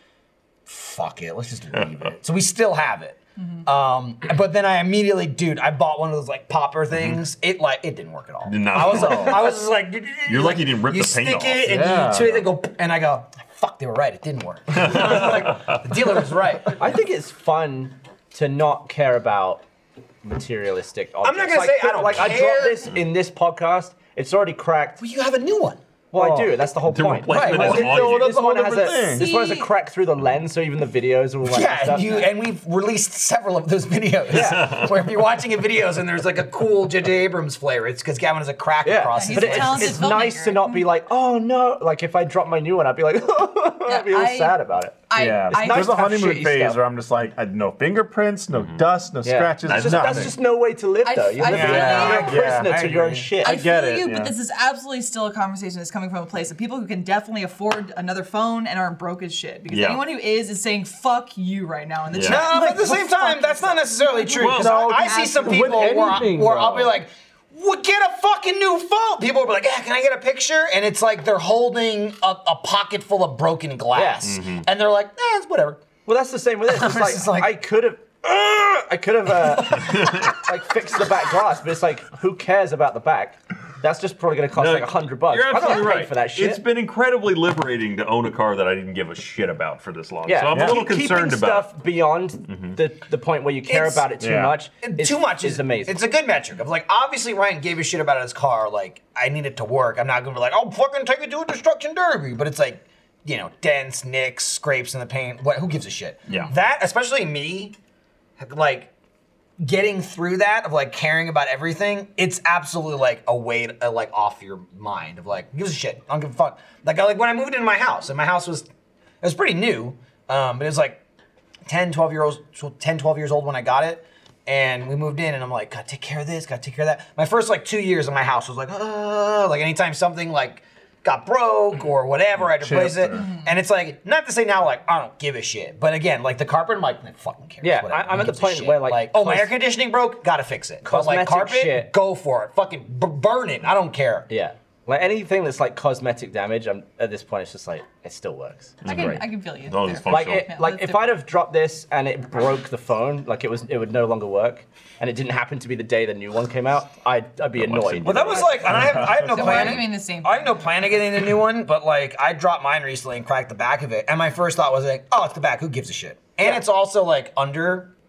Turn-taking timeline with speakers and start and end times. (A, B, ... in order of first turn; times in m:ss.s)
0:00.6-0:16.8 A
0:01.7-0:02.1 B
0:03.4-0:03.6 C
0:06.9-0:07.2 B
0:08.4-0:09.6 B
0:10.3-0:11.7 B
0:11.6-0:12.5 D
0:14.7-0:15.8 B
0:16.7-0:19.6 E
0:20.2-0:25.0 E
0:21.2-0:22.9 A
0:25.0-0:25.8 A
0:26.1-0:32.3 E
0:26.2-0:26.5 D
0:26.9-0:28.4 B
0:27.3-0:29.3 D
0:27.3-0:27.7 A
0:29.1-0:29.7 C
0:31.4-0:40.1 A
0:34.3-0:34.7 E
0:34.3-0:35.1 B
0:38.8-0:46.8 E
0:39.1-0:40.9 C
0:43.9-0:46.0 C
0:45.1-0:50.3 D
0:48.5-0:48.8 B
0:49.2-0:53.6 E
0:49.6-0:50.3 B
0:51.0-0:52.5 C
0:51.5-0:53.3 A
0:51.5-0:54.3 D
0:53.4-1:06.1 C
0:59.7-1:00.0 B
1:02.1-1:02.5 B
1:02.2-1:15.8 A
1:04.4-1:04.8 B
1:04.5-1:07.0 D
1:13.9-1:14.3 E
1:14.2-1:14.6 B
1:16.0-1:26.6 E
1:16.7-1:17.5 A
1:19.8-1:20.4 B
1:24.5-1:31.7 B
1:25.6-1:25.9 C
1:30.3-1:36.0 E
1:30.5-1:30.8 D
1:32.5-1:32.8 B
1:33.7-1:34.1 A
1:34.2-1:34.6 D
1:34.8-1:47.7 A
1:48.4-1:48.9 A
1:49.6-1:58.7 A
1:59.2-2:01.0 A
2:01.6-2:24.3 A
2:12.4-2:13.2 D
2:13.2-2:13.4 C
2:17.6-2:19.5 E
2:20.8-2:21.9 E
2:24.3-2:29.2 E
2:28.8-2:30.5 B
2:28.8-2:31.1 C
2:30.0-2:38.8 E
2:37.6-2:39.1 B
2:38.0-2:47.9 A
2:38.9-2:39.6 D
2:39.2-2:40.5 C